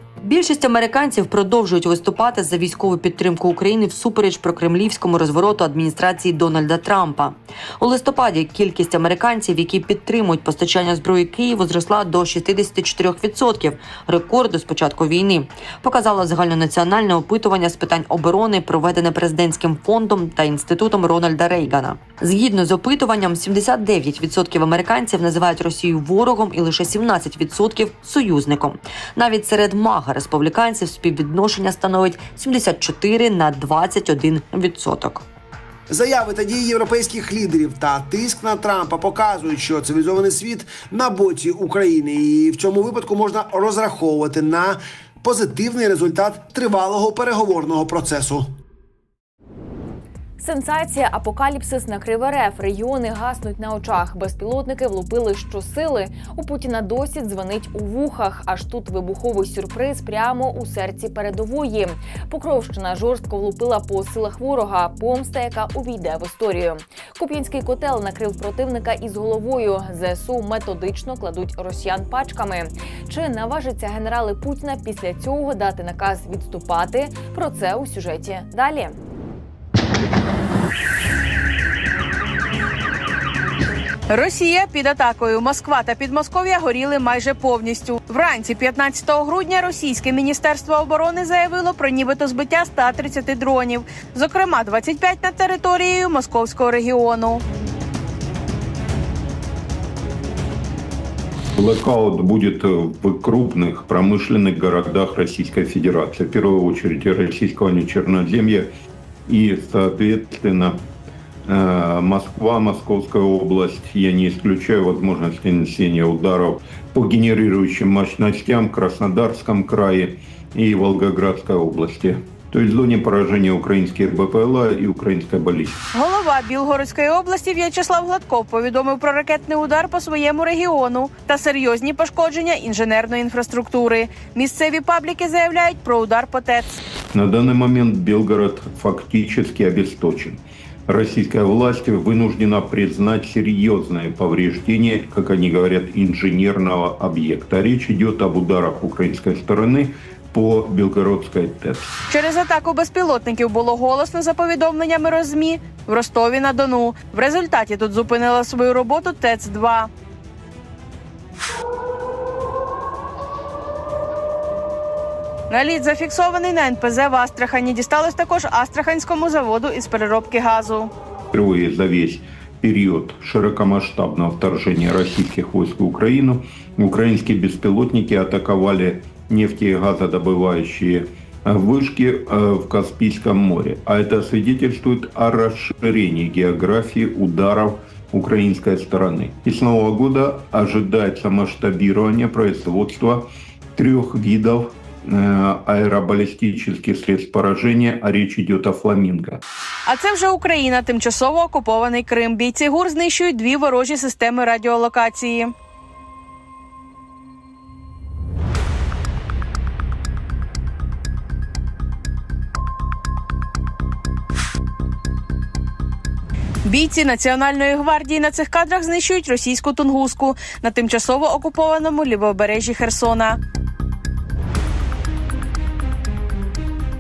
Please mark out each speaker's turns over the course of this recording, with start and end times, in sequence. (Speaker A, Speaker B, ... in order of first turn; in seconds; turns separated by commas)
Speaker A: 0.2-35.2, Speaker B: 35.9-48.5, Speaker C: 50.4-79.0, Speaker D: 84.1-97.4, Speaker E: 101.6-108.7, Speaker E: 109.3-110.8, Speaker E: 111.5-125.8, Speaker D: 125.9-136.8, Speaker E: 137.1-152.0, Speaker D: 152.1-159.9, Speaker D: 165.5-170.9, Speaker E: 171.3-199.4, Speaker D: 199.9-205.5, Speaker D: 216.6-223.4